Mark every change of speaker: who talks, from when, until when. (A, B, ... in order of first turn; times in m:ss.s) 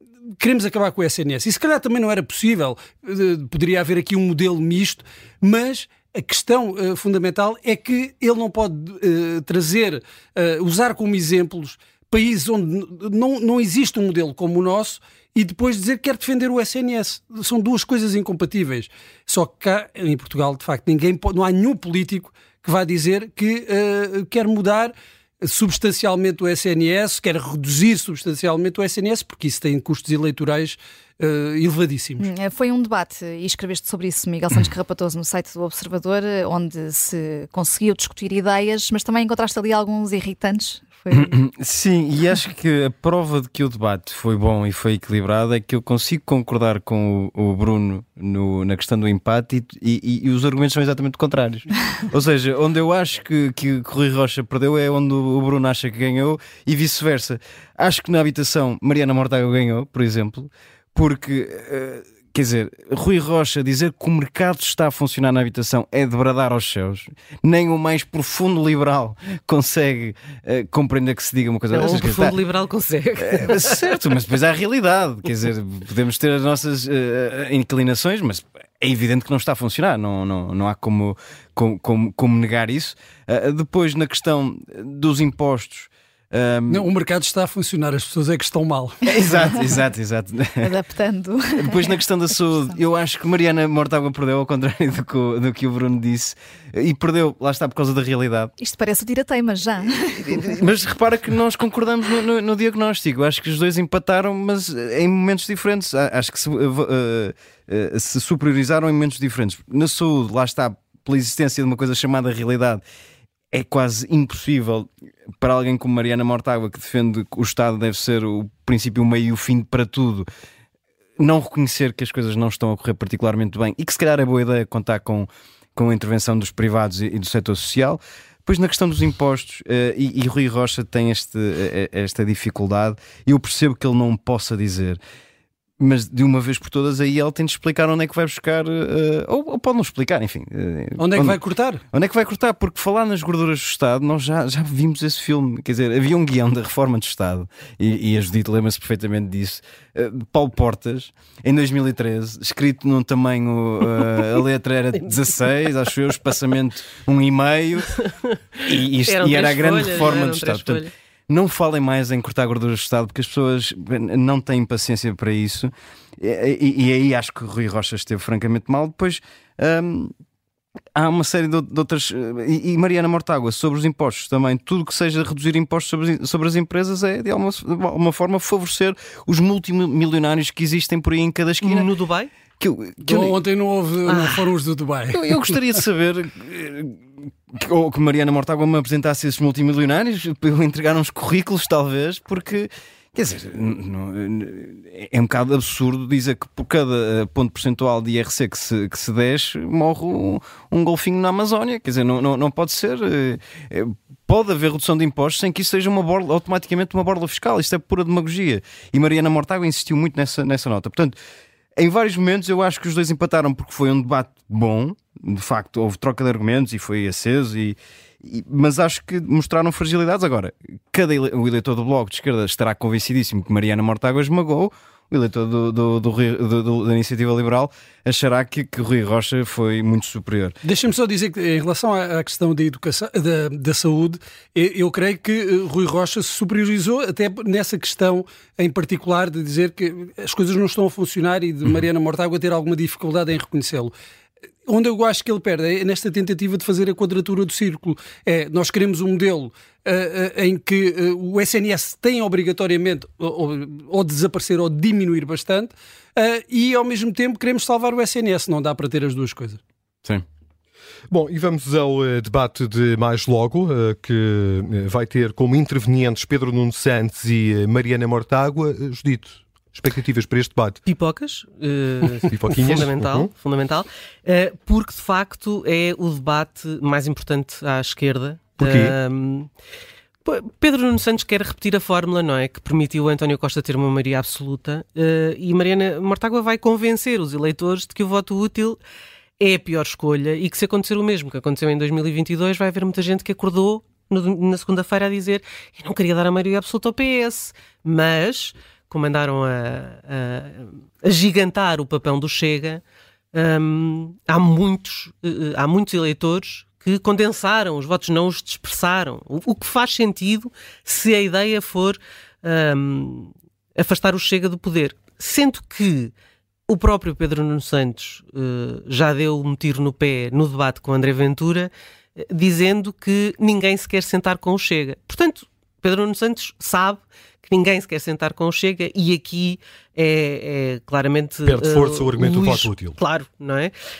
0:00.4-0:32.3 A
0:32.2-0:41.3 B
0:41.1-1:12.4 C
1:11.7-1:13.8 D
1:13.2-1:26.8 C
1:26.7-1:29.0 A
1:29.1-1:30.7 C
1:29.2-1:29.6 B
1:30.6-1:31.9 B
1:31.6-1:38.5 C
1:38.6-1:40.6 B
1:40.2-1:52.8 C
1:53.5-1:54.9 C
1:55.4-2:00.3 C
2:01.2-2:15.0 C
2:15.8-2:21.4 C
2:21.0-2:21.8 A
2:21.9-2:37.9 C
2:34.9-2:35.6 D
2:38.0-2:40.9 D
2:38.7-2:50.1 C
2:50.9-3:01.9 C
3:01.6-3:02.3 D
3:02.6-3:03.3 C
3:03.0-3:05.6 A
3:04.1-3:04.4 D
3:05.1-3:31.2 C
3:31.8-3:50.5 C
3:50.6-4:03.9 A
4:04.6-4:19.6 A
4:21.1-4:30.8 E
4:30.8-4:39.5 D
4:32.2-4:33.3 E
4:38.6-4:38.9 E
4:40.2-4:48.8 D
4:49.4-5:16.1 D
5:16.7-5:33.7 D
5:31.4-5:33.0 E